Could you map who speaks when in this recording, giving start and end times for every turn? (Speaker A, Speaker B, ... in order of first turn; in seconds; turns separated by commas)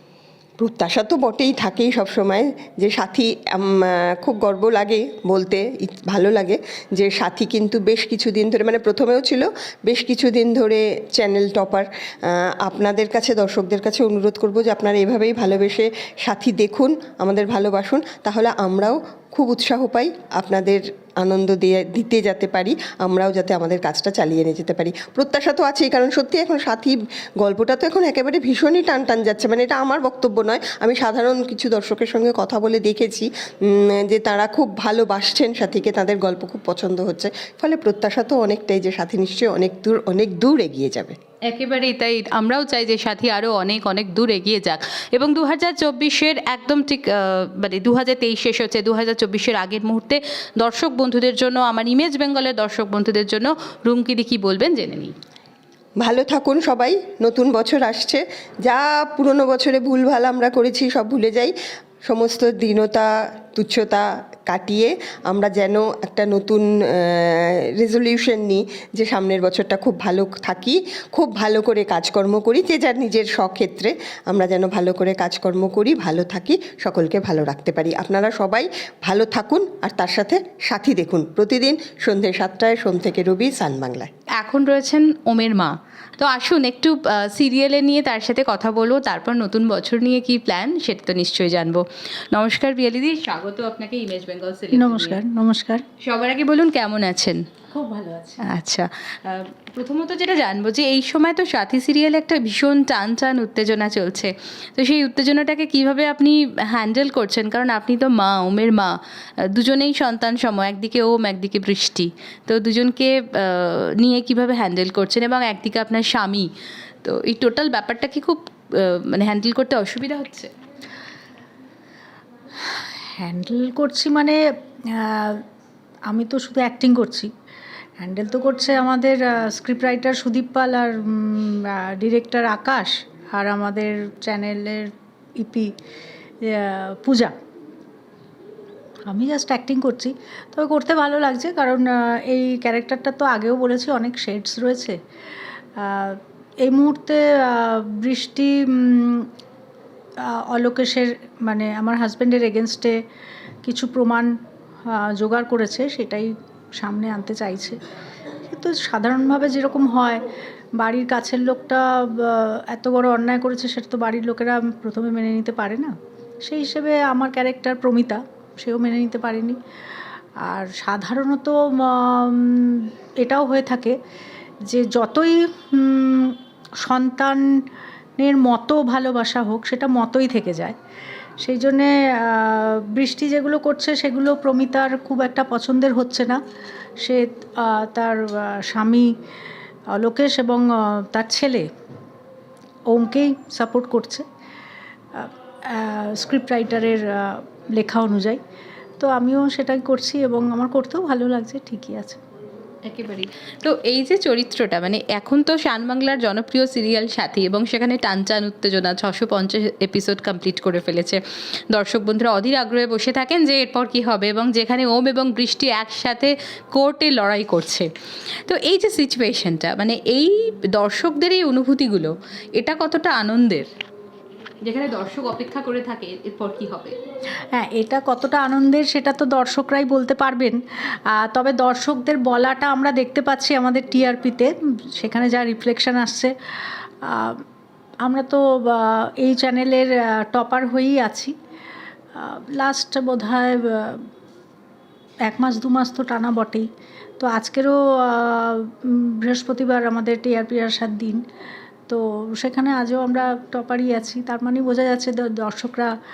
Speaker A: 0.6-41.1, Speaker B: 41.5-55.1, Speaker A: 56.0-61.5, Speaker A: 62.0-84.1, Speaker B: 84.4-95.2, Speaker C: 94.7-95.8, Speaker B: 96.0-97.4, Speaker C: 97.7-98.4, Speaker B: 98.4-109.0, Speaker B: 109.5-116.5, Speaker B: 117.0-120.5, Speaker C: 122.6-124.4, Speaker C: 124.9-125.4, Speaker C: 126.1-127.3, Speaker C: 128.0-135.7, Speaker C: 136.4-137.3, Speaker C: 139.1-145.0, Speaker C: 145.8-149.3, Speaker C: 150.5-152.9, Speaker C: 153.6-154.3, Speaker C: 154.9-157.8, Speaker C: 158.5-160.2, Speaker C: 160.8-165.9, Speaker C: 166.4-169.6, Speaker C: 170.4-173.9, Speaker C: 174.7-177.4, Speaker C: 178.2-180.7, Speaker C: 181.4-186.4, Speaker C: 187.0-189.1, Speaker C: 189.9-191.7, Speaker C: 192.9-194.2, Speaker C: 195.1-198.4, Speaker C: 199.0-202.2, Speaker B: 202.8-211.2, Speaker B: 211.7-217.9, Speaker B: 218.5-223.7, Speaker B: 224.6-226.9, Speaker C: 227.5-230.6, Speaker C: 231.1-236.3, Speaker C: 237.1-237.4, Speaker C: 238.0-241.3, Speaker C: 242.2-244.1, Speaker C: 245.3-246.7, Speaker C: 247.2-251.2, Speaker C: 251.9-255.9